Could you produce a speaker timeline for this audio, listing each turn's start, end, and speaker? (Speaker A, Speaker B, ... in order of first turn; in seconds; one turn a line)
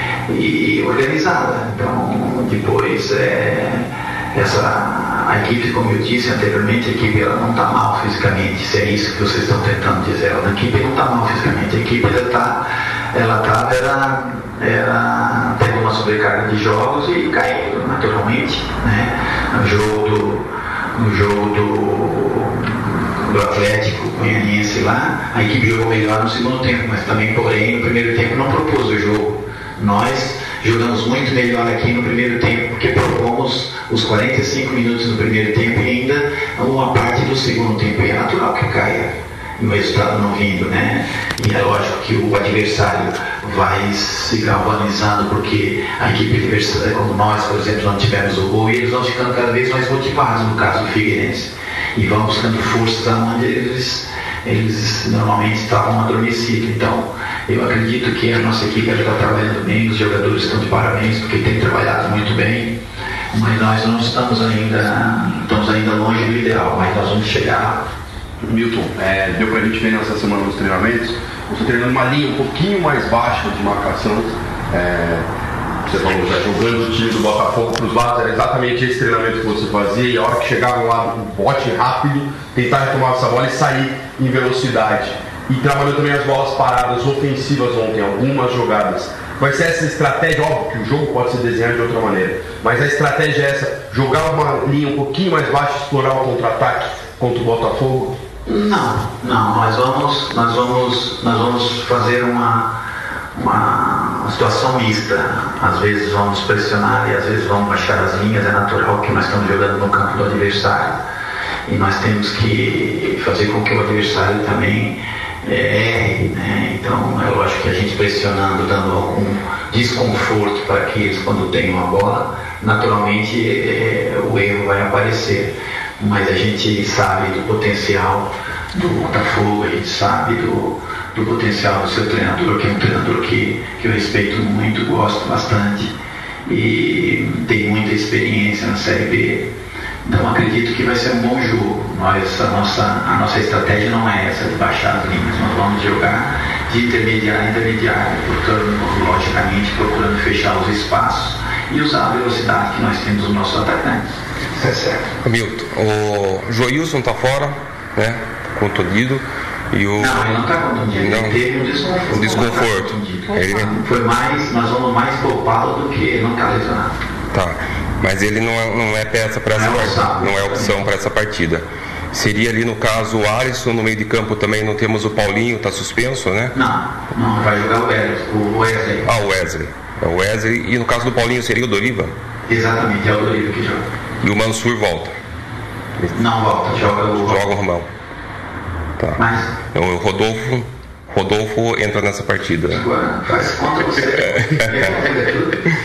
Speaker A: 0.3-62.8
Speaker A: 63.3-67.8
Speaker B: 68.4-75.3
Speaker B: 75.8-98.2
Speaker A: 98.5-102.7
Speaker A: 103.3-111.0
Speaker A: 111.7-135.9
Speaker A: 136.5-139.5
Speaker A: 140.1-155.1
Speaker C: 155.2-160.4
Speaker A: 159.9-166.9
Speaker C: 160.9-161.4
Speaker C: 162.1-163.8
Speaker C: 167.3-176.5
Speaker A: 169.5-170.9
Speaker A: 176.5-179.1
Speaker C: 179.1-182.1
Speaker A: 182.5-183.8
Speaker C: 184.2-185.2
Speaker A: 186.1-187.6
Speaker C: 186.8-187.9
Speaker C: 189.0-192.8
Speaker A: 189.2-189.6
Speaker A: 192.7-195.6